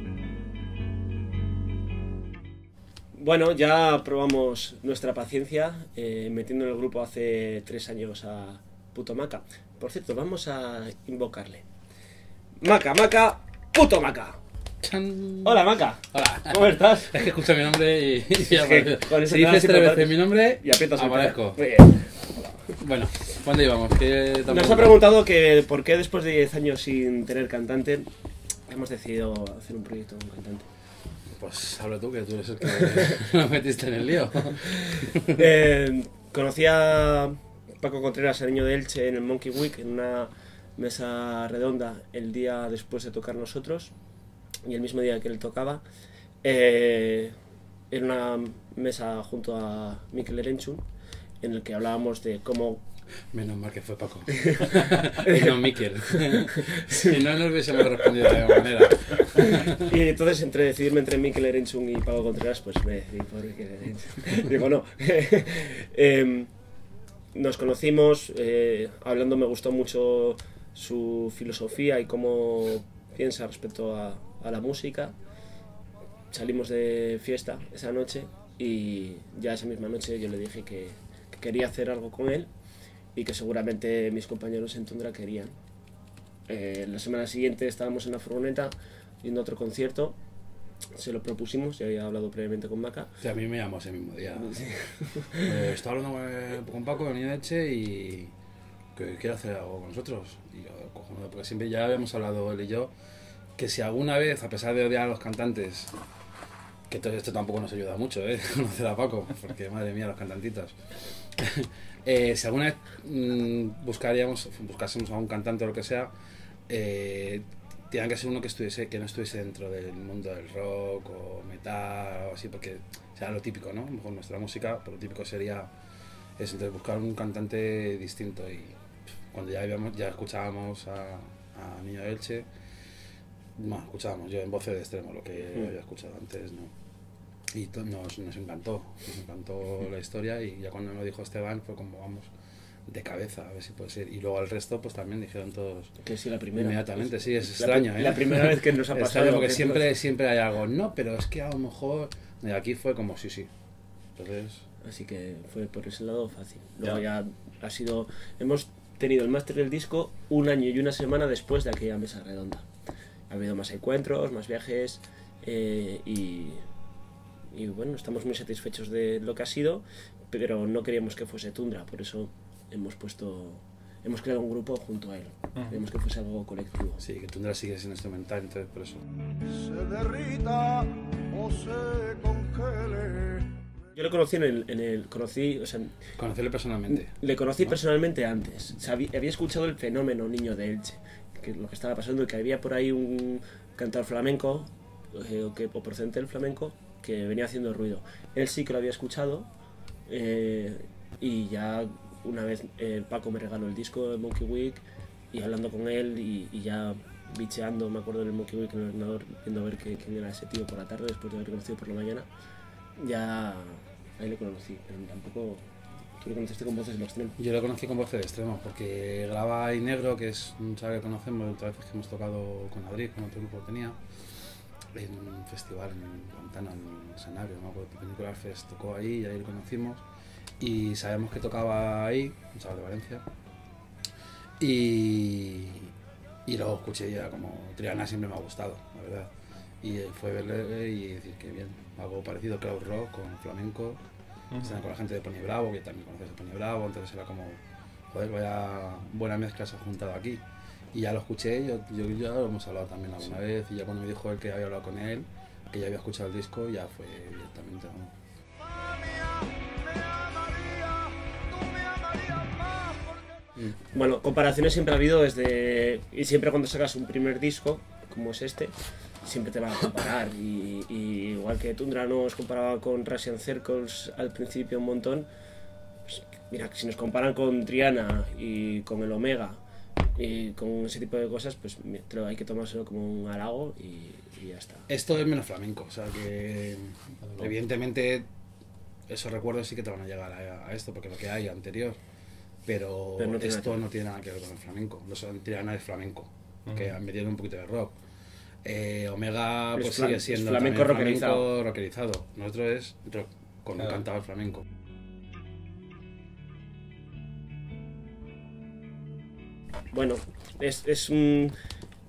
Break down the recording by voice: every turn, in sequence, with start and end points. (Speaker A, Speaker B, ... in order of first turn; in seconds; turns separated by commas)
Speaker A: 3.1-11.6, Speaker A: 12.6-14.4, Speaker B: 14.8-21.6, Speaker A: 15.4-17.3, Speaker A: 18.3-22.8, Speaker B: 22.8-25.1, Speaker A: 24.4-28.1, Speaker A: 28.7-30.7, Speaker B: 31.4-35.4, Speaker A: 32.8-33.1, Speaker A: 34.6-43.9, Speaker A: 44.6-45.8, Speaker A: 46.4-47.3, Speaker A: 47.9-50.8, Speaker A: 51.4-52.8, Speaker B: 53.3-59.9, Speaker A: 54.4-57.2, Speaker A: 57.8-66.5, Speaker A: 67.3-75.1, Speaker A: 76.3-82.5, Speaker A: 83.1-85.5, Speaker A: 86.5-90.2, Speaker A: 90.9-93.2, Speaker B: 93.2-94.6, Speaker A: 94.4-95.6, Speaker B: 95.3-98.3, Speaker B: 98.9-102.9, Speaker B: 103.5-105.9, Speaker B: 106.9-116.1, Speaker B: 116.7-125.7, Speaker B: 126.4-128.8, Speaker B: 129.3-132.5, Speaker B: 133.6-136.7, Speaker B: 137.5-142.3, Speaker B: 142.9-145.9, Speaker A: 146.0-149.9, Speaker B: 146.6-153.5, Speaker B: 154.2-154.6, Speaker A: 154.8-162.7, Speaker A: 163.3-166.6, Speaker A: 167.5-177.0, Speaker B: 177.0-179.0, Speaker C: 179.5-183.5, Speaker A: 183.9-186.0, Speaker B: 186.2-187.1, Speaker A: 186.9-199.5, Speaker A: 200.1-212.3, Speaker A: 213.0-215.7, Speaker A: 216.2-217.3, Speaker B: 217.4-224.0, Speaker B: 224.9-230.0, Speaker B: 230.6-233.2, Speaker B: 234.6-235.9, Speaker B: 236.5-239.3, Speaker B: 239.8-244.0, Speaker B: 244.6-247.6, Speaker B: 248.1-250.4, Speaker B: 250.9-258.1, Speaker A: 263.9-275.3, Speaker A: 276.1-279.6, Speaker A: 280.1-284.9, Speaker B: 284.9-288.3, Speaker B: 289.1-292.0, Speaker B: 292.6-298.0, Speaker A: 293.2-293.8, Speaker B: 298.6-304.6, Speaker A: 299.8-301.5, Speaker A: 309.9-311.5